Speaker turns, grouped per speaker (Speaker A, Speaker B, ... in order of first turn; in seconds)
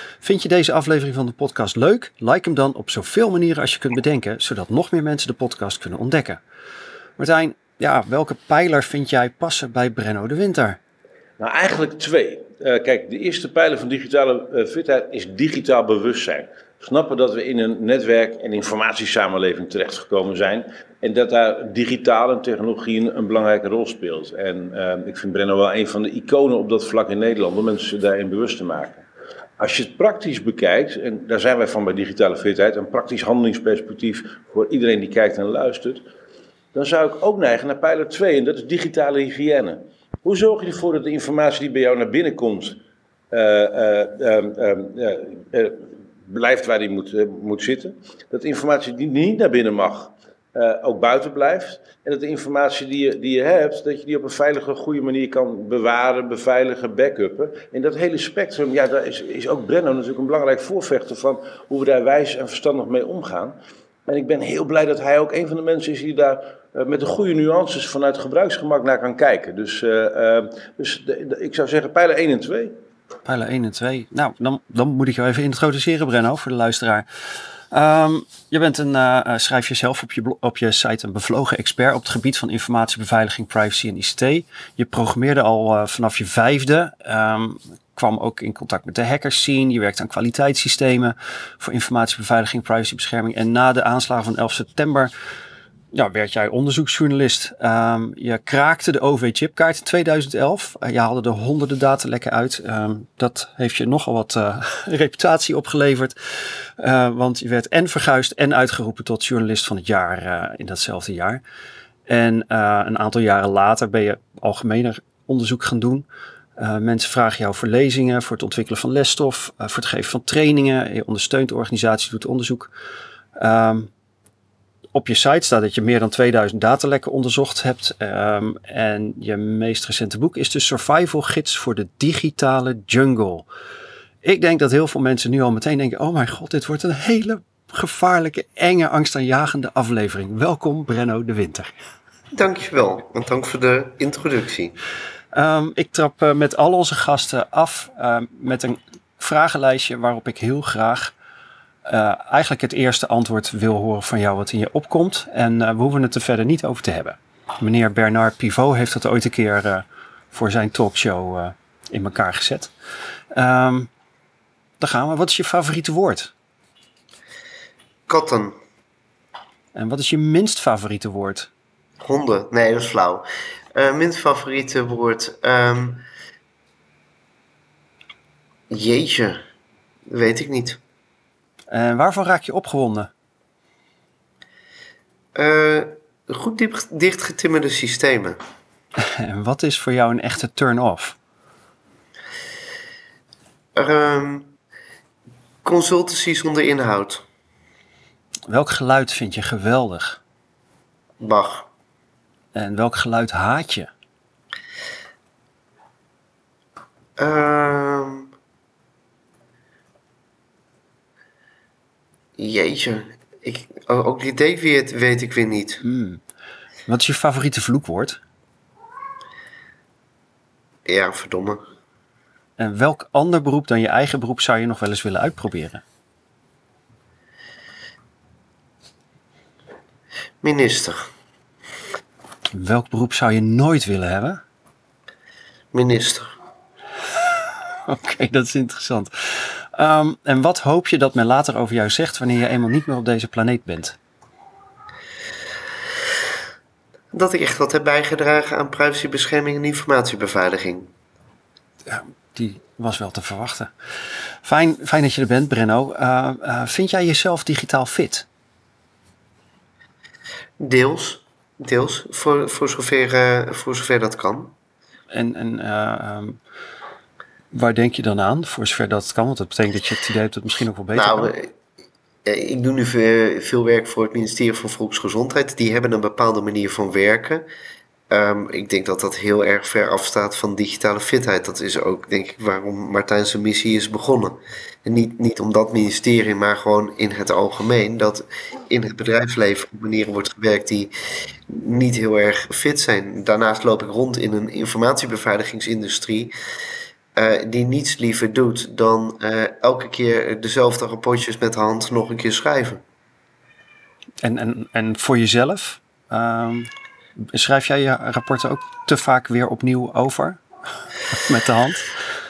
Speaker A: 0.2-6.4, 7.2-10.8, 73.2-95.1, 95.9-111.4, 112.1-116.0, 116.6-122.7, 123.3-123.9, 124.9-133.4, 134.2-141.7, 145.3-151.1, 151.8-162.7, 163.3-163.9, 164.8-166.3, 169.7-171.5, 181.7-183.1, 189.0-191.2, 198.5-200.2, 202.5-203.9, 215.8-216.2, 216.9-218.2, 222.6-225.8, 232.5-234.4, 237.2-244.0, 251.8-258.3, 265.1-266.4, 267.5-271.3, 304.2-311.9
Speaker B: 11.4-29.0, 29.6-36.0, 36.7-42.8, 43.3-63.5, 64.1-72.7
Speaker C: 142.3-144.8, 168.1-168.6, 172.0-176.0, 178.7-179.4, 180.1-180.8, 185.3-188.4, 193.8-194.5, 195.6-197.2, 201.2-201.7, 207.2-208.3, 212.4-215.8, 220.9-221.6, 230.4-231.1, 235.7-236.3, 247.1-250.9, 260.6-264.5, 270.9-271.5, 272.2-277.4, 278.1-290.9, 291.5-296.3, 297.1-302.8